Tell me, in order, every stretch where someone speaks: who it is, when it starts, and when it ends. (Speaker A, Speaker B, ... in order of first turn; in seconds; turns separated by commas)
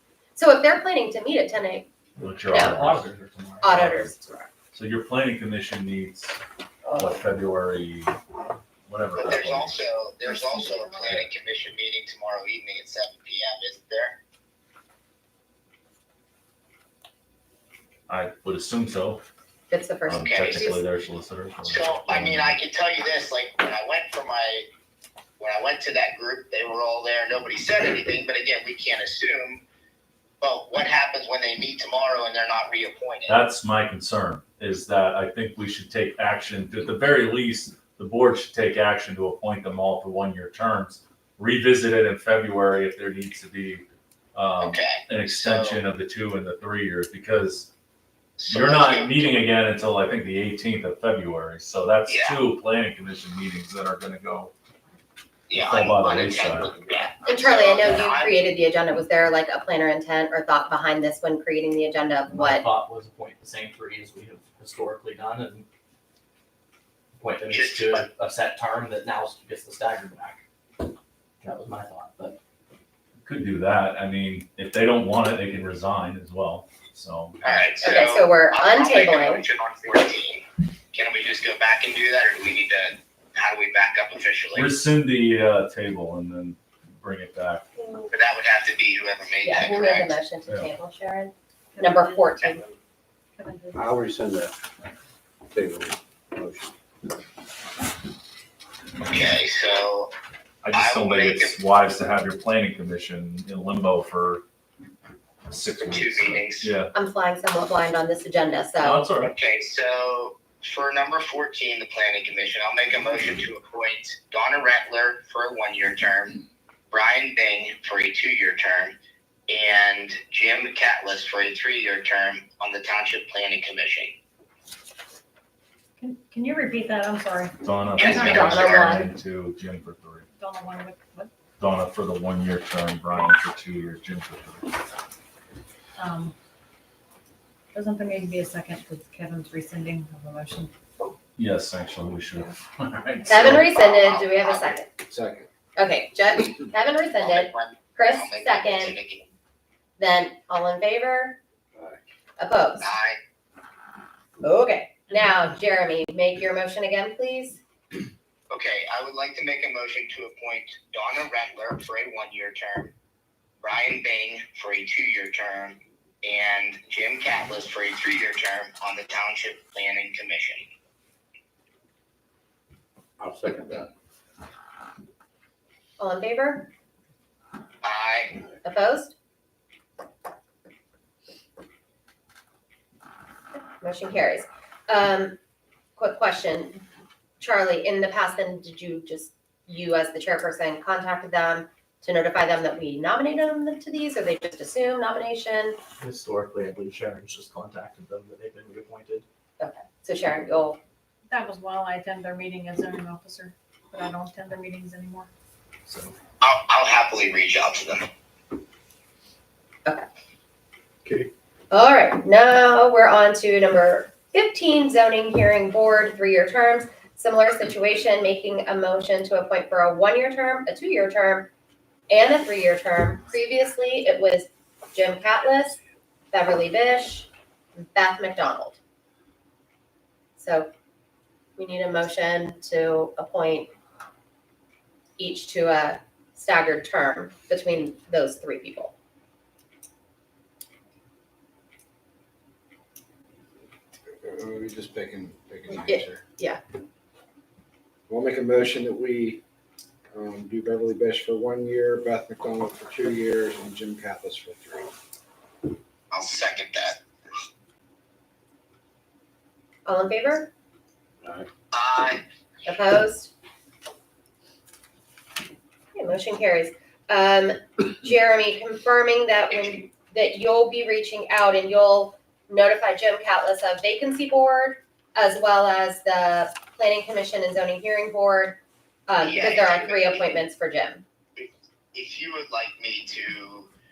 Speaker A: 0.3-1.9, Speaker B: 2.2-3.1, Speaker A: 2.5-2.8, Speaker C: 2.5-3.8, Speaker A: 3.6-4.5, Speaker B: 3.7-4.1, Speaker B: 4.7-6.4, Speaker A: 6.8-7.2, Speaker B: 7.0-8.2, Speaker B: 8.9-9.8, Speaker D: 9.2-14.2, Speaker E: 10.2-11.1, Speaker B: 18.1-19.2, Speaker A: 19.7-20.8, Speaker B: 20.1-22.6, Speaker D: 20.2-20.7, Speaker D: 21.6-24.7, Speaker D: 25.4-29.6, Speaker D: 30.4-33.4, Speaker B: 33.2-47.7, Speaker D: 44.6-45.8, Speaker D: 48.4-49.3, Speaker B: 48.5-54.5, Speaker D: 52.0-52.4, Speaker D: 55.5-58.4, Speaker B: 55.5-56.7, Speaker A: 57.0-62.6, Speaker C: 62.3-65.7, Speaker C: 67.2-70.4, Speaker D: 67.5-68.0, Speaker C: 71.4-72.4, Speaker B: 73.2-77.7, Speaker D: 77.4-84.7, Speaker A: 77.8-79.4, Speaker B: 84.5-87.7, Speaker A: 87.8-88.0, Speaker D: 88.1-90.2, Speaker A: 89.4-92.6, Speaker E: 91.7-92.6, Speaker E: 93.4-93.8, Speaker F: 93.7-94.5, Speaker F: 95.5-96.7, Speaker D: 99.0-100.1, Speaker B: 100.6-104.4, Speaker D: 100.7-101.6, Speaker B: 105.5-106.9, Speaker D: 105.9-106.7, Speaker A: 106.9-109.0, Speaker B: 108.8-109.3, Speaker D: 109.3-118.9, Speaker D: 119.5-124.2, Speaker E: 126.0-127.5, Speaker B: 127.6-130.3, Speaker D: 128.0-129.0, Speaker A: 128.0-129.1, Speaker E: 130.4-131.3, Speaker B: 131.6-134.7, Speaker E: 136.0-136.3, Speaker E: 137.7-140.7, Speaker B: 141.4-143.7, Speaker A: 143.3-144.9, Speaker D: 143.5-144.8, Speaker F: 145.1-145.5, Speaker A: 145.8-148.9, Speaker D: 147.2-149.3, Speaker A: 150.0-151.4, Speaker F: 151.8-152.0, Speaker A: 152.4-152.9, Speaker D: 152.8-153.2, Speaker A: 154.4-157.6, Speaker D: 158.5-162.9, Speaker D: 163.6-170.7, Speaker F: 173.2-173.9, Speaker A: 176.0-176.7, Speaker D: 177.8-178.4, Speaker A: 178.6-179.1, Speaker A: 183.8-185.4, Speaker A: 186.0-186.8, Speaker A: 187.4-195.8, Speaker C: 196.0-199.2, Speaker A: 199.6-200.8, Speaker E: 201.3-205.3, Speaker C: 205.9-206.1, Speaker D: 206.4-208.1, Speaker A: 211.7-221.5, Speaker A: 222.1-225.8, Speaker A: 226.3-228.8, Speaker A: 230.4-230.7, Speaker A: 231.6-233.7, Speaker A: 235.2-238.9, Speaker F: 244.2-246.2, Speaker A: 245.8-246.6, Speaker F: 248.1-249.4, Speaker F: 250.1-254.9, Speaker D: 256.1-257.0, Speaker A: 259.9-260.5, Speaker D: 261.7-262.2, Speaker A: 262.7-263.3, Speaker A: 265.9-281.1, Speaker D: 269.5-269.9, Speaker D: 279.2-280.3, Speaker D: 281.4-283.7